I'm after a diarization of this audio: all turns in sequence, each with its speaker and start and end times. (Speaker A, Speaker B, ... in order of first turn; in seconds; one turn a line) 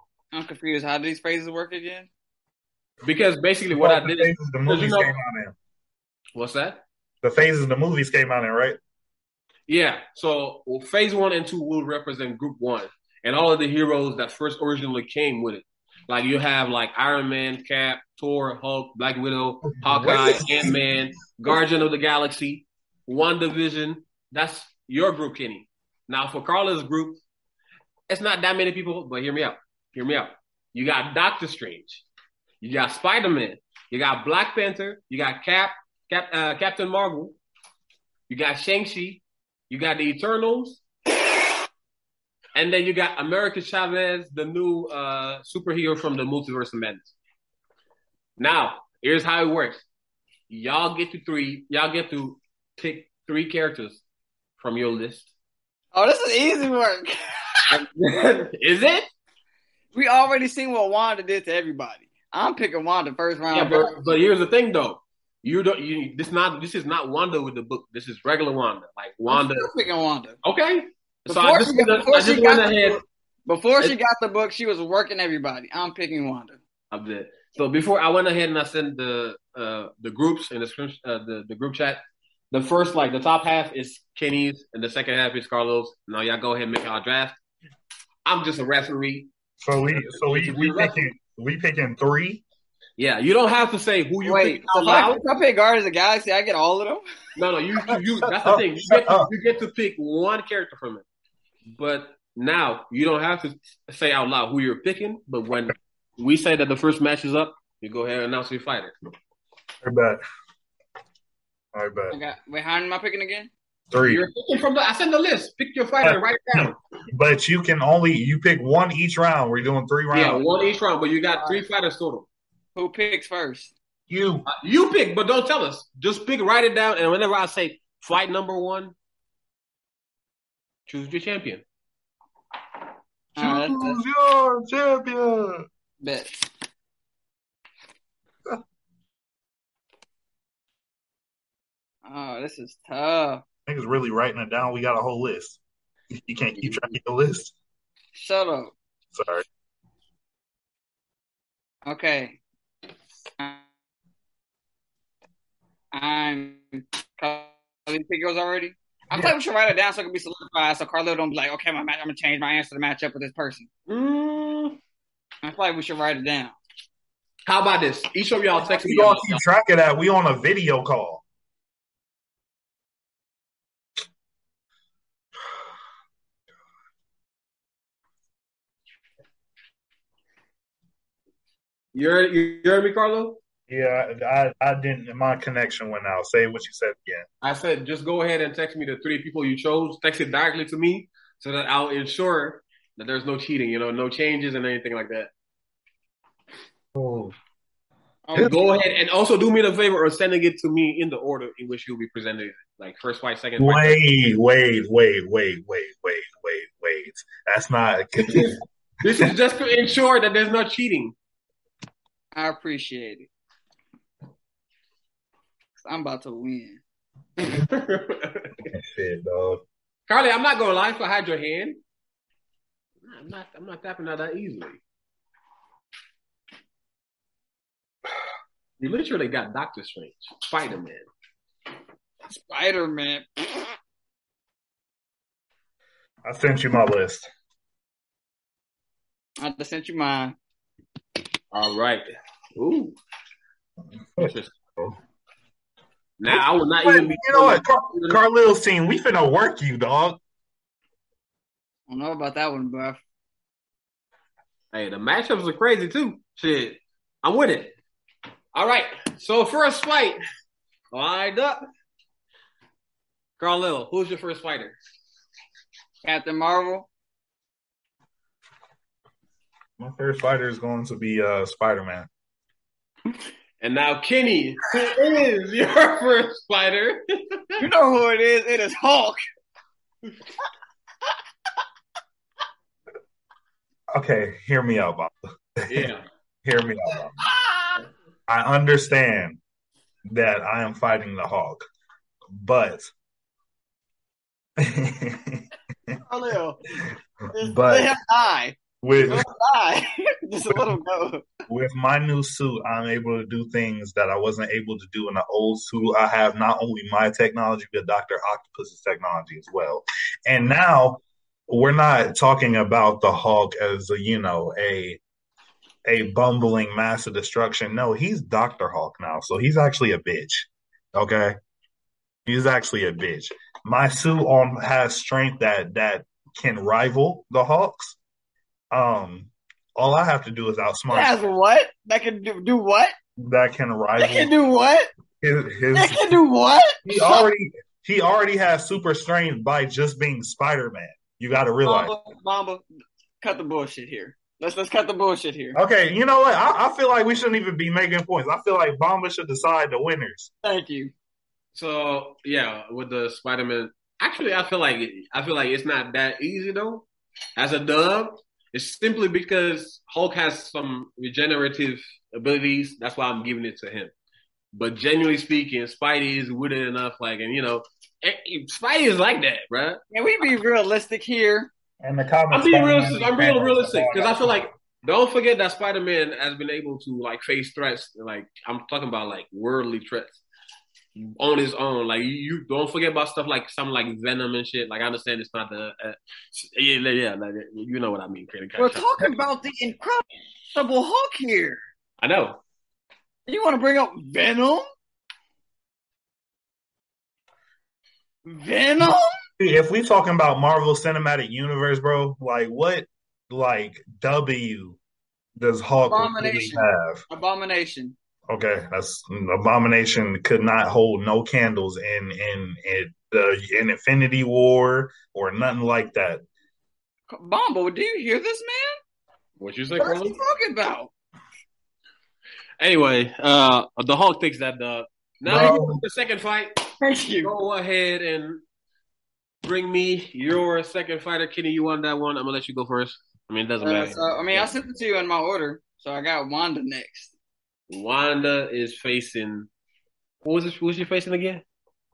Speaker A: 0.3-2.1
Speaker B: 3.0-5.1
Speaker C: 3.7-5.5
Speaker B: 6.3-6.8
Speaker C: 7.2-8.8
Speaker B: 9.7-27.2
Speaker C: 19.8-20.8
Speaker B: 28.1-32.0
Speaker B: 32.6-37.4
Speaker B: 38.3-40.8
Speaker B: 42.5-47.1
Speaker B: 48.4-49.8
Speaker B: 50.5-54.0
Speaker B: 54.6-55.3
Speaker A: 55.9-57.7
Speaker B: 57.7-59.0
Speaker A: 59.9-64.0
Speaker B: 63.5-69.7
Speaker A: 69.3-70.4
Speaker B: 70.4-73.0
Speaker A: 71.3-76.6
Speaker B: 76.9-82.0
Speaker B: 82.5-87.3
Speaker B: 88.2-89.3
Speaker C: 89.6-92.4
Speaker B: 89.9-91.1
Speaker B: 93.0-95.2
Speaker A: 94.2-97.0
Speaker B: 97.3-101.0
Speaker C: 98.3-99.3
Speaker B: 101.7-108.9
Speaker C: 109.8-110.2
Speaker C: 111.7-112.2
Speaker A: 112.1-113.5
Speaker C: 113.9-114.2
Speaker B: 114.0-116.8
Speaker C: 116.0-120.4
Speaker B: 120.1-122.3
Speaker A: 121.3-121.6
Speaker A: 122.8-123.7
Speaker C: 124.1-124.5
Speaker B: 124.5-128.9
Speaker B: 130.9-131.6
Speaker A: 133.3-134.0
Speaker C: 133.4-135.7
Speaker A: 136.0-136.4
Speaker A: 142.1-143.4
Speaker C: 143.7-145.6
Speaker C: 146.1-147.5
Speaker A: 148.1-148.7
Speaker C: 149.1-149.4
Speaker A: 151.8-152.4
Speaker A: 155.9-163.7
Speaker B: 163.9-164.8
Speaker A: 165.4-166.6
Speaker B: 167.5-169.4
Speaker C: 168.6-171.2
Speaker B: 181.9-183.4
Speaker C: 183.7-187.2
Speaker B: 187.4-195.3
Speaker C: 196.9-197.3
Speaker A: 198.2-198.6
Speaker B: 198.4-204.0
Speaker C: 203.6-208.6
Speaker B: 208.2-211.1
Speaker A: 212.3-213.3
Speaker A: 215.8-216.8
Speaker B: 217.5-218.7
Speaker C: 218.7-219.6
Speaker B: 220.1-221.8
Speaker B: 223.0-224.8
Speaker B: 228.8-231.0
Speaker A: 232.2-233.7
Speaker C: 236.2-237.3
Speaker A: 239.4-240.3
Speaker B: 241.5-242.0
Speaker B: 242.6-242.9
Speaker C: 244.2-244.9
Speaker B: 244.2-244.5
Speaker B: 246.2-248.2
Speaker C: 246.3-250.2
Speaker A: 251.9-253.0
Speaker B: 254.7-257.7
Speaker B: 258.5-260.2
Speaker B: 260.9-261.6
Speaker B: 263.4-264.8
Speaker A: 266.0-266.9
Speaker C: 269.8-272.1
Speaker B: 273.6-277.6
Speaker A: 277.6-279.2
Speaker C: 283.9-285.9
Speaker B: 285.7-286.0
Speaker C: 286.4-287.1
Speaker A: 287.2-287.8
Speaker C: 288.3-289.4
Speaker C: 290.1-291.6
Speaker C: 292.3-292.9
Speaker C: 294.6-296.0
Speaker A: 296.1-296.6
Speaker A: 297.3-301.2
Speaker C: 297.4-297.9
Speaker C: 298.8-299.3
Speaker C: 300.5-300.7
Speaker C: 301.5-315.0
Speaker C: 315.9-321.3
Speaker C: 322.2-328.0
Speaker C: 328.7-331.1
Speaker A: 330.9-332.9
Speaker C: 333.2-334.3
Speaker A: 334.0-334.9
Speaker C: 335.2-336.1
Speaker A: 335.7-337.3
Speaker C: 336.8-341.9
Speaker A: 341.6-342.6
Speaker A: 343.2-345.6
Speaker C: 345.5-350.3
Speaker A: 350.4-350.9
Speaker B: 351.5-356.9
Speaker B: 357.4-363.9
Speaker B: 364.5-369.8
Speaker A: 369.9-371.5
Speaker C: 371.8-374.5
Speaker B: 372.3-380.2
Speaker B: 380.9-389.1
Speaker A: 388.6-391.6
Speaker B: 392.0-392.4
Speaker A: 393.3-394.6
Speaker A: 398.2-399.1
Speaker C: 399.4-404.8
Speaker C: 405.4-407.0
Speaker A: 405.9-407.9
Speaker C: 408.3-416.2
Speaker A: 417.1-418.7
Speaker B: 419.4-420.2
Speaker A: 419.8-420.9
Speaker B: 422.6-426.6
Speaker C: 425.2-425.8
Speaker A: 426.8-427.3
Speaker B: 427.2-428.4
Speaker B: 429.4-434.5
Speaker A: 433.6-437.1
Speaker B: 437.7-439.5
Speaker B: 440.2-441.4